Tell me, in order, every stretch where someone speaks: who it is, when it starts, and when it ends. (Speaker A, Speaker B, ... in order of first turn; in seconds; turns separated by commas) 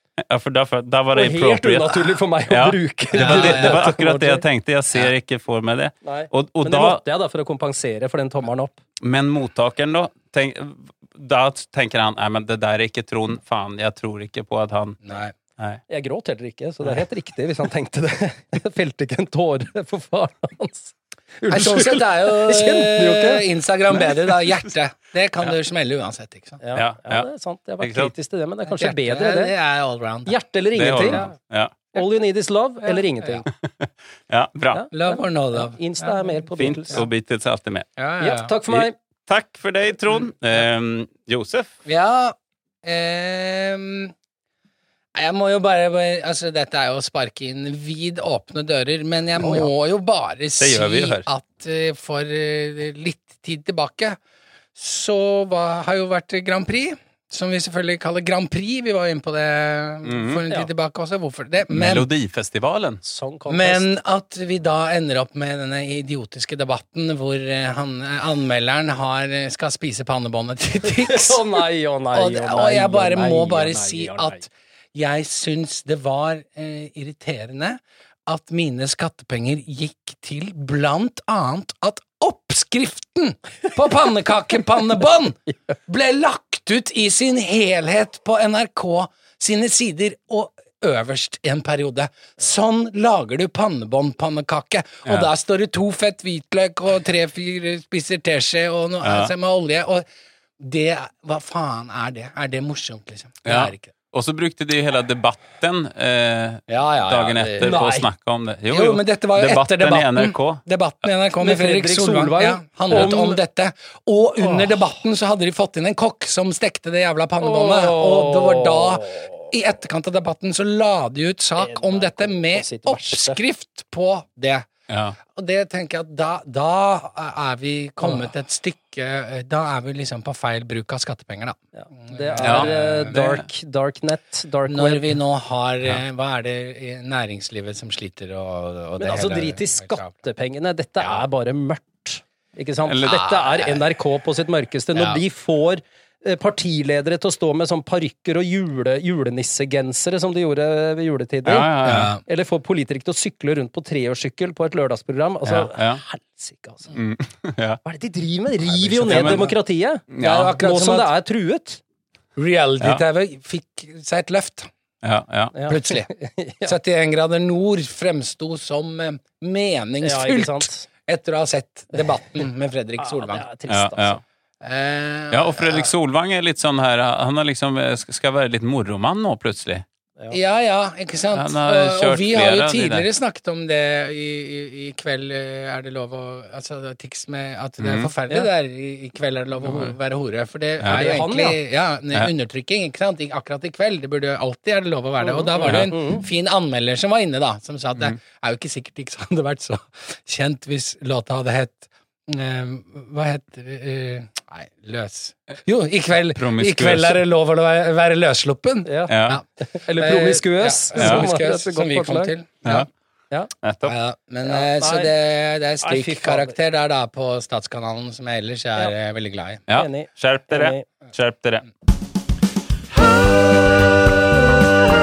Speaker A: 0.2-7.0, Speaker B: 1.1-4.5, Speaker C: 3.1-3.9, Speaker B: 6.0-8.8, Speaker A: 9.0-15.0, Speaker C: 15.1-15.3, Speaker B: 15.9-23.4, Speaker C: 21.5-26.6, Speaker B: 26.6-29.5, Speaker A: 26.8-27.3, Speaker A: 27.8-28.1, Speaker C: 28.7-30.4, Speaker B: 30.3-31.3, Speaker A: 30.8-31.8, Speaker C: 31.0-31.3, Speaker B: 31.9-33.5, Speaker C: 32.8-33.4, Speaker A: 33.6-34.8, Speaker B: 34.7-37.0, Speaker C: 34.9-37.0, Speaker A: 36.6-37.9, Speaker C: 38.0-38.5, Speaker B: 38.2-38.9, Speaker A: 38.7-41.7, Speaker C: 41.9-44.1, Speaker C: 45.1-54.2, Speaker A: 50.6-51.3, Speaker C: 54.8-62.1, Speaker A: 60.0-60.4, Speaker A: 61.7-63.0, Speaker B: 63.0-63.9, Speaker C: 63.5-71.4, Speaker B: 70.9-74.4, Speaker C: 72.1-100.1, Speaker A: 99.0-99.3, Speaker C: 100.6-103.9, Speaker A: 103.5-110.6, Speaker C: 106.7-107.8, Speaker B: 107.6-108.1, Speaker C: 108.7-124.7, Speaker B: 111.4-113.4, Speaker B: 114.4-114.8, Speaker B: 117.4-119.5, Speaker B: 121.6-123.4, Speaker A: 124.9-125.2, Speaker C: 125.3-133.2, Speaker B: 131.8-135.1, Speaker A: 132.4-133.4, Speaker C: 134.7-140.1, Speaker B: 139.0-156.9, Speaker A: 142.9-143.4, Speaker C: 143.1-143.5, Speaker A: 151.4-152.1, Speaker C: 151.8-152.2, Speaker A: 155.4-156.0, Speaker A: 156.9-157.8, Speaker B: 157.8-161.8, Speaker C: 158.7-159.6, Speaker A: 159.0-159.5, Speaker A: 160.1-160.6, Speaker C: 160.2-161.1, Speaker C: 162.4-164.7, Speaker A: 165.0-165.5, Speaker B: 165.5-166.8, Speaker C: 165.7-166.1, Speaker C: 166.6-173.4, Speaker B: 170.0-170.9, Speaker B: 173.0-174.2, Speaker A: 173.7-174.2, Speaker C: 174.6-175.9, Speaker A: 175.3-179.8, Speaker C: 180.3-209.4, Speaker A: 181.3-183.1, Speaker A: 187.8-188.1, Speaker A: 190.8-191.1, Speaker B: 190.9-191.6, Speaker B: 195.2-196.2, Speaker A: 195.6-195.9, Speaker A: 206.3-207.2, Speaker B: 208.8-212.3, Speaker A: 209.1-209.4, Speaker C: 210.0-212.9, Speaker A: 211.0-211.3, Speaker A: 213.6-214.0, Speaker C: 213.8-219.6, Speaker B: 214.4-215.1, Speaker B: 215.8-216.6, Speaker A: 219.7-221.7, Speaker B: 219.7-220.8